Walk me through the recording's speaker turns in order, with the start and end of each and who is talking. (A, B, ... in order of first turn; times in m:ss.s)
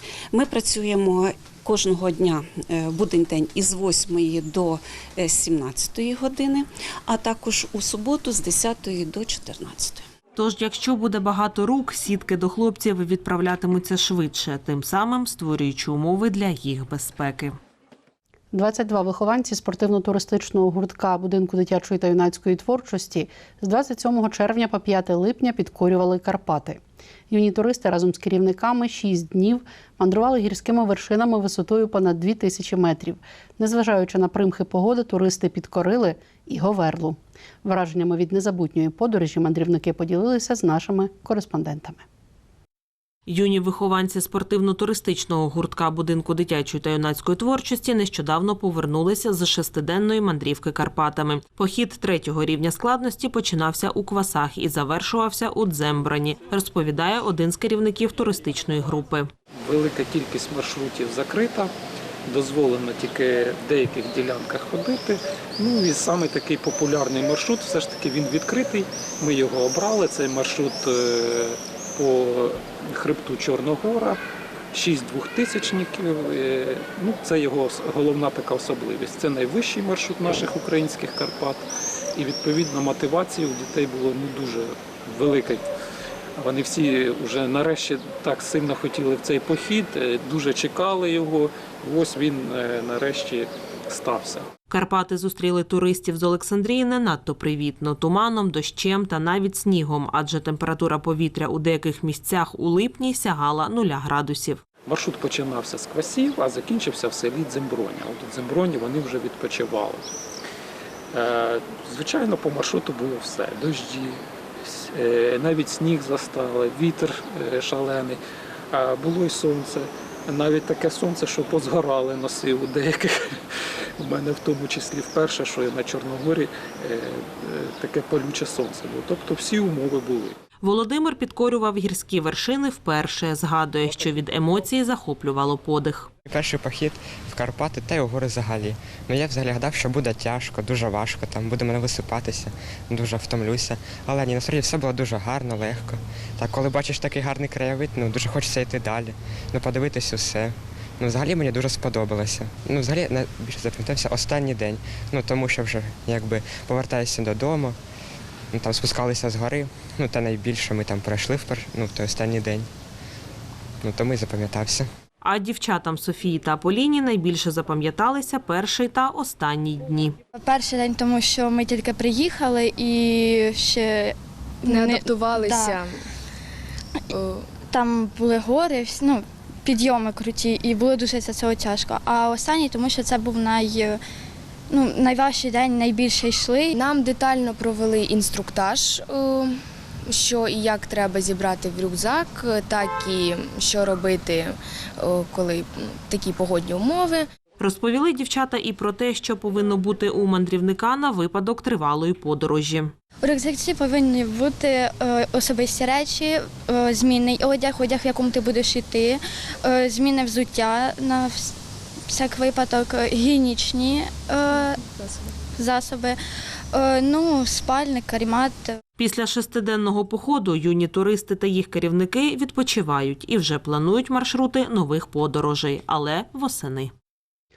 0:00.3-0:10.0 A
0:10.4-0:17.6 B
0:18.5-0:42.0 C
0:43.3-0:59.3 B
0:59.6-1:01.7 D
1:02.3-1:14.2 D
1:14.7-1:21.6 D
1:22.2-1:25.7 D
1:26.4-1:34.5 D
1:34.7-1:44.6 B
1:44.9-1:50.0 D
1:51.1-1:58.2 D
1:58.7-2:03.4 D
2:04.0-2:10.4 D
2:10.6-2:16.1 B
2:16.3-2:37.8 E
2:38.5-2:42.7 E
2:43.8-2:44.9 E
2:45.2-2:50.2 B
2:50.4-2:55.9 F
2:54.7-2:56.1 G
2:57.1-3:04.0 F
2:57.1-2:57.5 G
3:04.7-3:06.8 F
3:06.7-3:17.3 G
3:17.6-3:22.9 B
3:23.2-3:31.5 F
3:32.1-3:34.9 F
3:35.5-3:36.2 F
3:36.7-3:38.6 F
3:39.0-3:46.9 B